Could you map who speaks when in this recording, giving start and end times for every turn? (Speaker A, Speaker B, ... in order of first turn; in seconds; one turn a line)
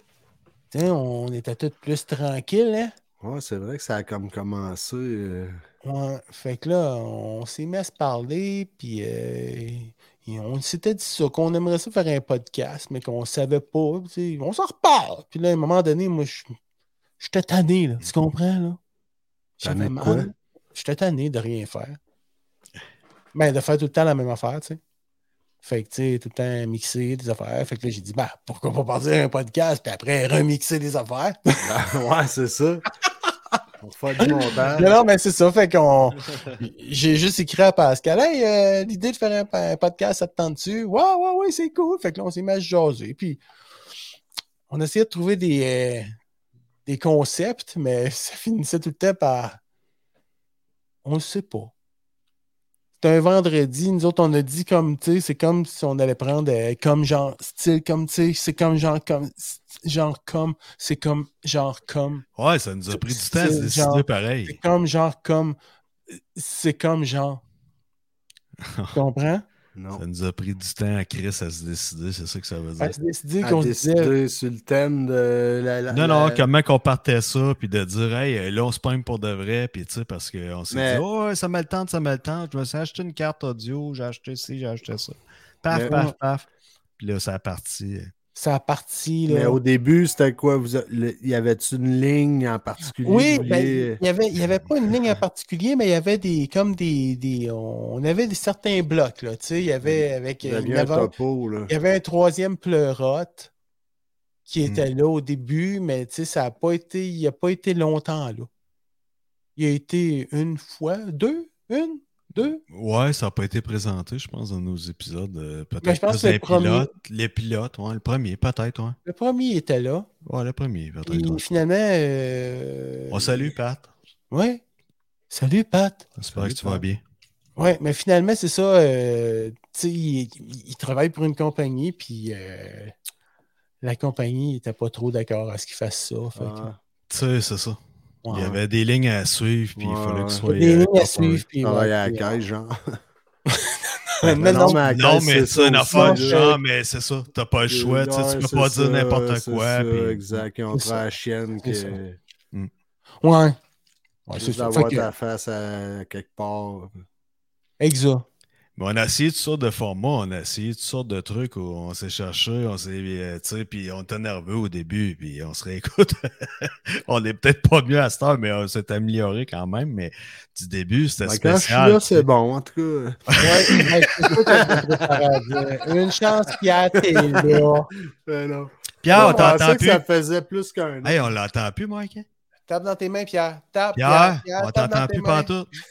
Speaker A: 0.7-2.9
Speaker B: 3.2-5.6
Speaker A: 5.8-16.6
Speaker A: 17.2-18.8
Speaker A: 19.6-22.0
Speaker B: 19.6-20.3
Speaker A: 23.3-24.8
Speaker A: 25.6-31.6
Speaker B: 31.6-32.8
Speaker B: 33.8-35.0
Speaker A: 34.2-43.4
Speaker A: 44.7-46.2
Speaker A: 46.9-49.6
Speaker A: 51.0-51.7
Speaker A: 53.0-62.2
Speaker C: 62.4-64.6
Speaker A: 62.9-65.6
Speaker A: 66.1-67.4
Speaker C: 68.6-69.0
Speaker A: 68.9-69.5
Speaker B: 69.8-70.0
Speaker C: 70.0-73.0
Speaker A: 72.8-74.1
Speaker B: 73.4-76.5
Speaker C: 75.9-86.4
Speaker B: 80.7-81.0
Speaker B: 85.7-86.0
Speaker A: 85.9-86.2
Speaker C: 87.0-88.1
Speaker A: 88.4-89.6
Speaker B: 89.3-94.0
Speaker A: 93.0-101.1
Speaker B: 99.8-101.7
Speaker A: 101.7-103.5
Speaker A: 104.5-108.5
Speaker A: 109.6-112.6
Speaker C: 112.7-119.0
Speaker A: 115.8-116.9
Speaker A: 119.1-120.1
Speaker C: 120.2-121.4
Speaker A: 121.1-123.5
Speaker C: 123.1-123.9
Speaker A: 124.3-124.6
Speaker A: 125.3-126.8
Speaker C: 126.2-127.0
Speaker B: 126.3-126.6
Speaker A: 127.6-132.9
Speaker A: 133.8-136.7
Speaker B: 136.4-136.8
Speaker C: 137.1-137.8
Speaker C: 138.3-141.4
Speaker B: 138.3-138.6
Speaker B: 139.8-140.5
Speaker A: 140.5-142.3
Speaker B: 141.6-143.0
Speaker A: 143.5-144.8
Speaker B: 144.2-146.4
Speaker C: 144.4-150.4
Speaker A: 145.9-146.6
Speaker B: 147.7-152.2
Speaker A: 150.7-151.0
Speaker A: 151.6-152.0
Speaker A: 153.2-153.6
Speaker A: 154.3-155.1
Speaker B: 154.4-156.9
Speaker A: 157.8-158.2
Speaker C: 158.8-172.2
Speaker B: 171.2-173.6
Speaker C: 173.3-173.9
Speaker A: 173.4-177.9
Speaker B: 174.3-175.2
Speaker B: 176.9-181.3
Speaker C: 179.0-180.0
Speaker A: 179.2-179.5
Speaker C: 181.0-182.3
Speaker A: 182.7-185.5
Speaker C: 184.0-185.7